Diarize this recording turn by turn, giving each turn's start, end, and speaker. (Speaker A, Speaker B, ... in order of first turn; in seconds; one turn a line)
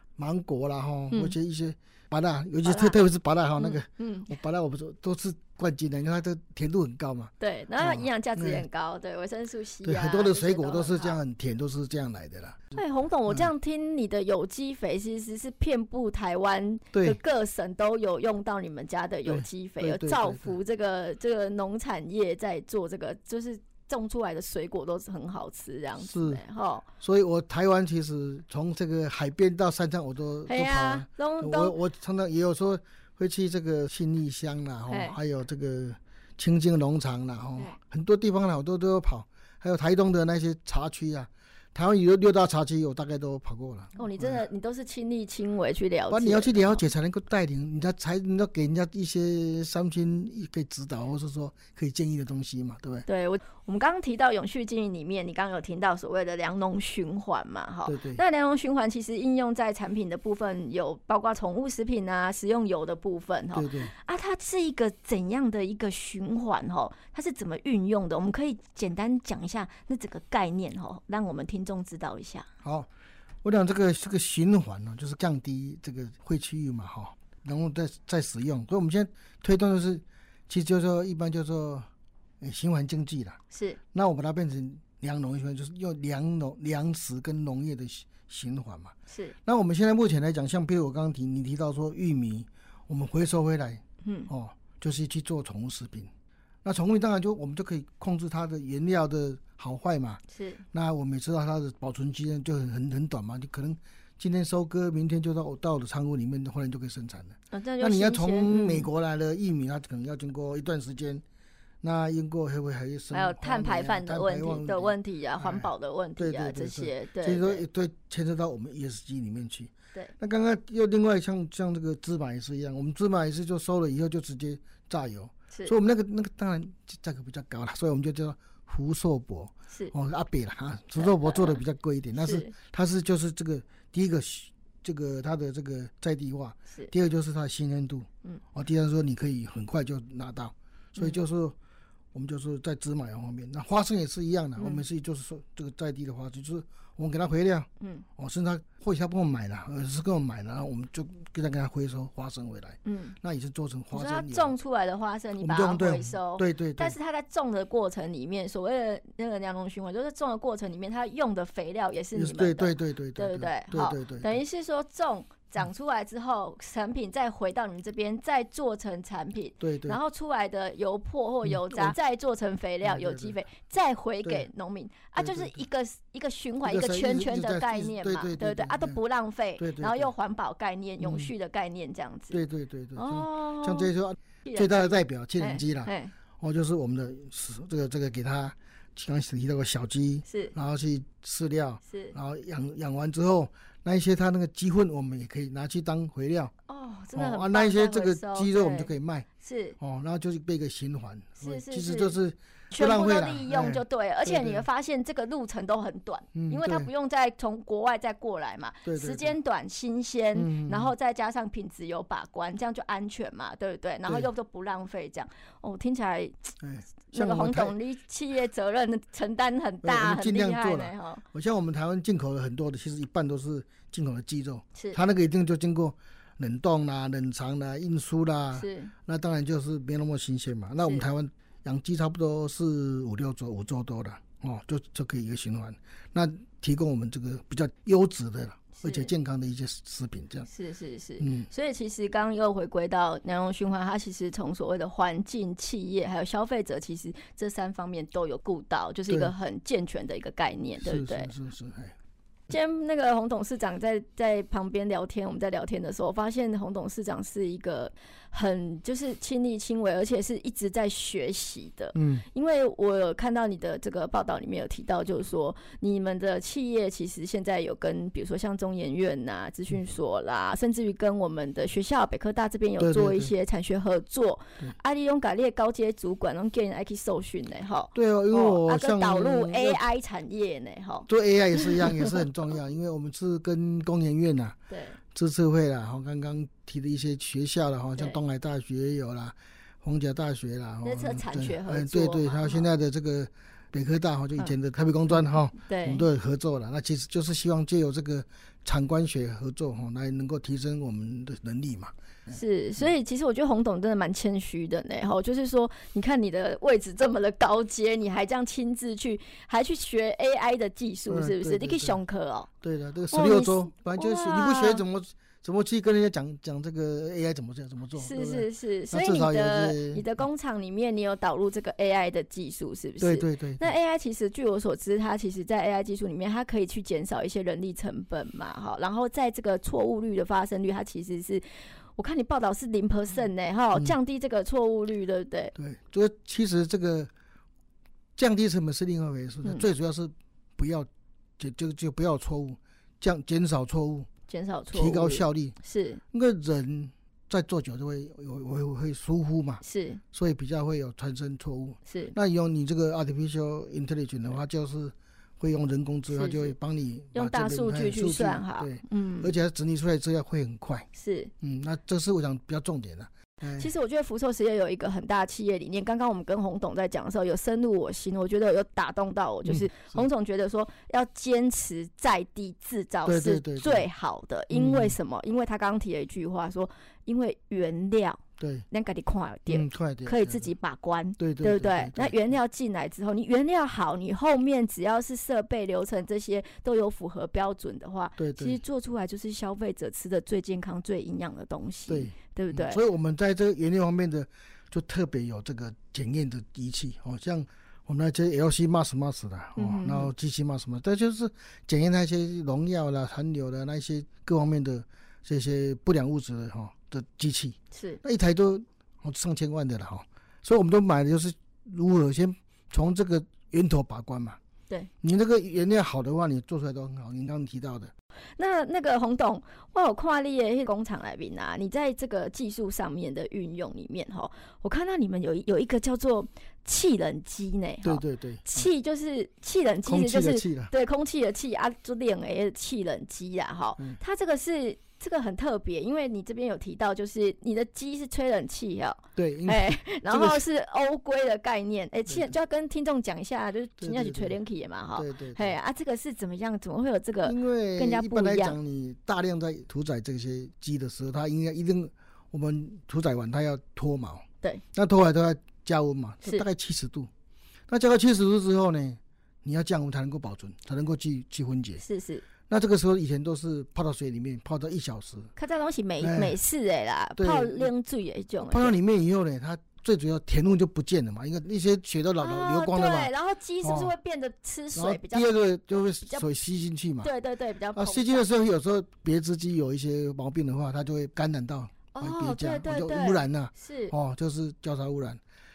Speaker A: 0.2-8.6
Speaker B: 2.6-3.0
Speaker B: 3.6-4.3
Speaker B: 7.4-11.2
Speaker A: 9.8-13.5
Speaker B: 12.7-26.9
Speaker A: 16.9-17.2
Speaker A: 19.2-20.6
Speaker A: 26.0-26.4
Speaker A: 27.0-44.4
Speaker B: 30.5-31.8
Speaker B: 34.9-35.2
Speaker B: 44.0-46.9
Speaker A: 46.1-53.1
Speaker B: 53.1-72.5
Speaker A: 57.9-58.2
Speaker A: 63.5-63.9
Speaker A: 72.6-72.9
Speaker A: 73.4-81.9
Speaker A: 82.4-83.4
Speaker B: 83.5-83.8
Speaker A: 83.9-96.1
Speaker B: 89.1-89.3
Speaker B: 94.0-94.3
Speaker A: 96.6-100.2
Speaker B: 100.3-100.6
Speaker A: 100.7-111.2
Speaker B: 107.5-108.9
Speaker A: 111.8-141.6
Speaker B: 113.1-117.6
Speaker B: 131.0-131.6
Speaker B: 132.2-132.5
Speaker A: 142.1-154.6
Speaker B: 144.6-144.8
Speaker B: 147.8-148.1
Speaker B: 152.8-153.2
Speaker B: 153.9-182.4
Speaker A: 155.4-156.9
Speaker A: 162.2-164.4
Speaker A: 169.6-170.0
Speaker A: 171.4-171.9
Speaker A: 172.8-173.3
Speaker A: 175.2-175.7
Speaker A: 176.6-179.0
Speaker A: 179.6-180.1
Speaker A: 181.0-181.3
Speaker A: 182.3-196.5
Speaker B: 182.9-183.9
Speaker B: 184.4-186.1
Speaker B: 190.3-190.5
Speaker B: 191.9-192.2
Speaker B: 196.7-199.8
Speaker A: 197.2-199.3
Speaker A: 199.8-204.7
Speaker B: 201.4-202.2
Speaker B: 202.7-216.6
Speaker A: 206.3-206.9
Speaker A: 208.8-209.3
Speaker A: 210.3-210.9
Speaker A: 216.6-217.8
Speaker B: 217.1-221.2
Speaker A: 219.8-240.5
Speaker B: 228.6-228.9
Speaker B: 238.8-239.1
Speaker B: 240.5-251.3
Speaker A: 241.2-241.5
Speaker A: 250.8-251.9
Speaker B: 252.5-282.2
Speaker A: 261.9-262.3
Speaker A: 272.8-273.3
Speaker A: 277.9-279.8
Speaker A: 281.1-284.6
Speaker B: 284.7-285.0
Speaker A: 285.1-302.8
Speaker B: 290.8-292.7
Speaker B: 295.6-296.1
Speaker B: 302.3-312.5
Speaker A: 311.1-312.0
Speaker A: 312.6-320.1
Speaker B: 313.1-314.8
Speaker B: 317.9-331.4
Speaker A: 323.0-323.7
Speaker B: 331.9-335.6
Speaker A: 335.6-337.1
Speaker A: 338.2-344.1
Speaker B: 344.3-346.0
Speaker A: 344.7-345.6
Speaker A: 346.1-360.9
Speaker B: 349.6-350.0
Speaker B: 351.9-352.1
Speaker B: 356.1-356.6
Speaker B: 357.1-359.3
Speaker B: 360.9-361.3
Speaker A: 361.4-363.7
Speaker B: 363.6-392.8
Speaker A: 369.4-370.0
Speaker A: 373.1-373.9
Speaker A: 374.5-375.0
Speaker A: 378.4-378.7
Speaker A: 379.5-380.5
Speaker A: 381.2-382.2
Speaker A: 388.2-388.6
Speaker A: 391.9-414.4
Speaker B: 399.6-400.1
Speaker B: 407.7-408.0
Speaker A: 415.0-417.9
Speaker B: 418.4-448.6
Speaker A: 427.8-428.7
Speaker A: 429.9-430.7
Speaker A: 439.2-440.4
Speaker A: 442.1-442.3
Speaker A: 443.8-444.4
Speaker A: 444.9-445.6
Speaker A: 447.2-457.1
Speaker A: 457.7-461.8
Speaker B: 461.8-462.2
Speaker A: 462.5-465.3
Speaker B: 465.4-468.7
Speaker A: 466.0-466.4
Speaker A: 467.2-467.7
Speaker A: 468.4-473.1
Speaker B: 472.2-475.3
Speaker A: 473.6-473.9
Speaker A: 474.7-477.1
Speaker B: 477.0-478.3
Speaker A: 477.7-485.2
Speaker B: 481.9-483.9